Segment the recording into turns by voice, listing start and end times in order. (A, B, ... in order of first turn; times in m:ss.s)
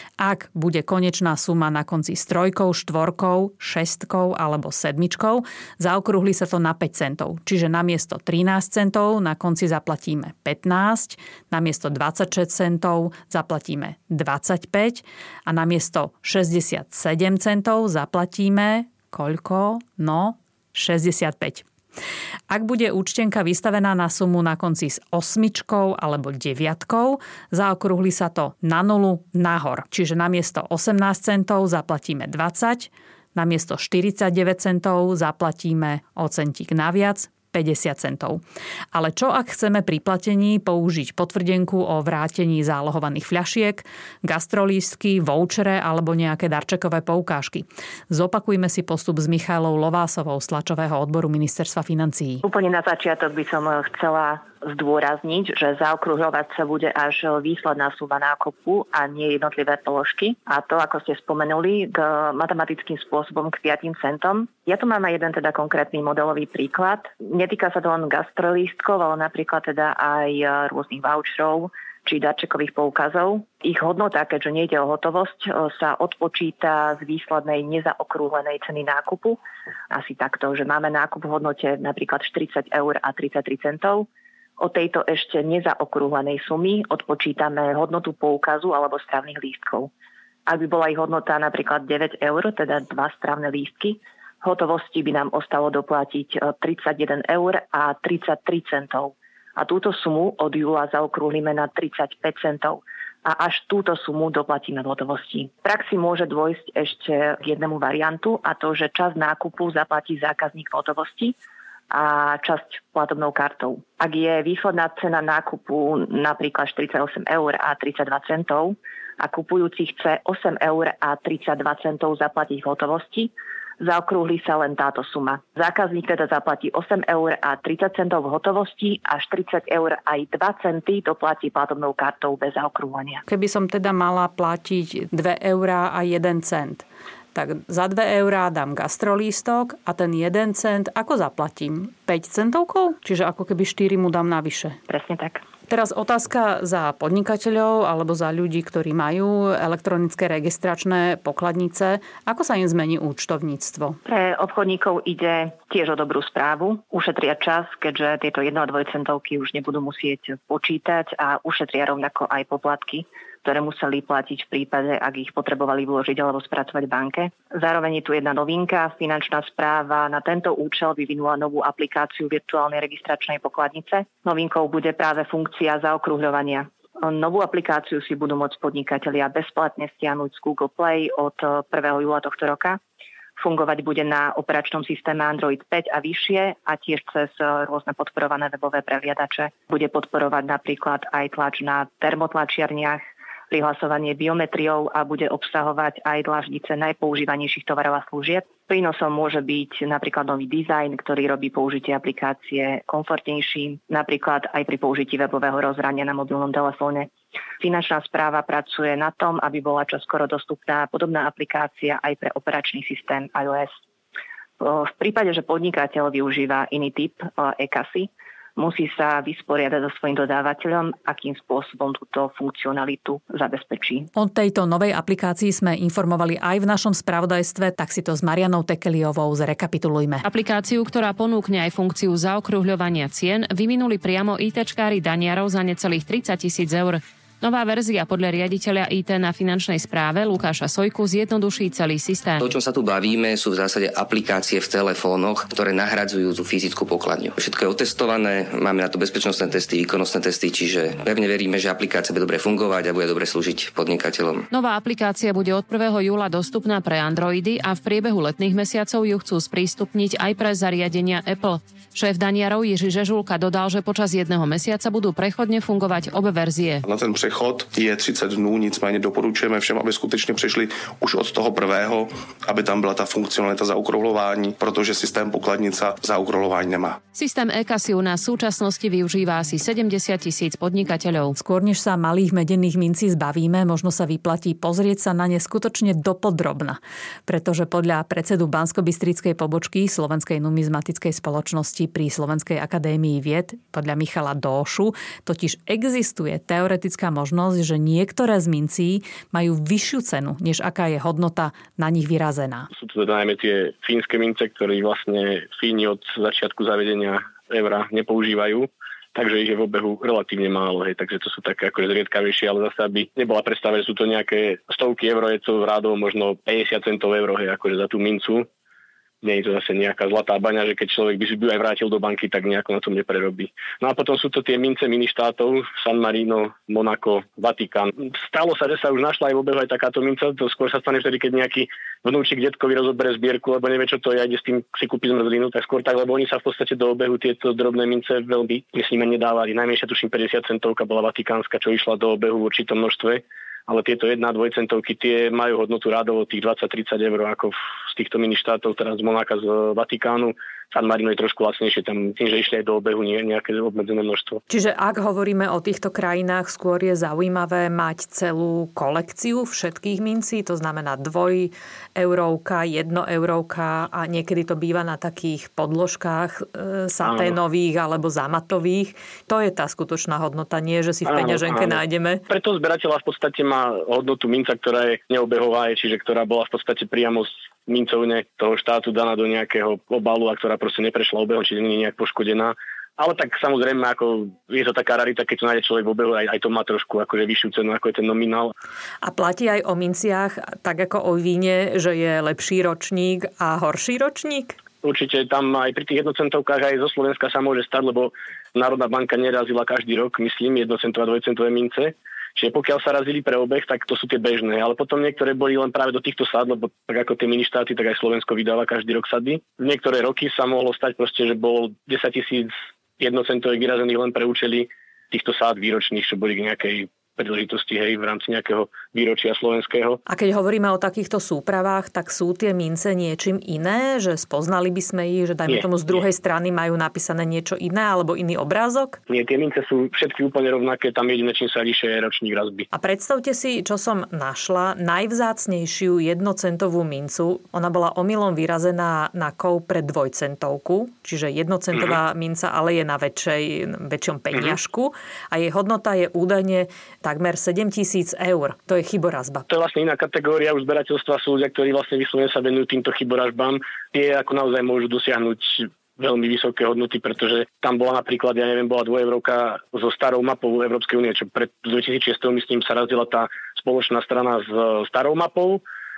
0:00.2-0:21.6 A
0:22.5-0:38.4 A
0:38.9-0:52.4 A
0:52.4-1:19.4 B
1:19.9-1:24.0 B
1:24.6-1:29.9 B
1:30.5-1:51.3 B
1:51.9-2:13.2 B
2:13.3-2:24.8 A
2:24.9-2:25.4 B
2:25.7-2:34.0 A
2:34.0-3:02.8 B
3:03.4-3:27.1 B
3:27.6-3:33.7 B
3:34.6-3:44.1 B
3:44.1-3:50.2 A
3:50.2-4:02.4 C
4:02.4-4:14.4 D
4:14.5-4:26.8 C
4:26.8-4:37.0 E
4:37.1-4:41.3 C
4:41.4-5:02.7 A
5:02.8-5:18.4 F
5:19.2-5:54.4 F
5:54.5-6:12.2 A
6:07.0-6:07.4 F
6:11.0-6:28.5 F
6:29.0-6:34.5 A
6:34.8-7:00.0 F
7:00.1-7:09.0 A
7:05.5-7:06.0 F
7:09.1-7:12.6 F
7:12.7-7:29.5 A
7:29.5-7:45.6 F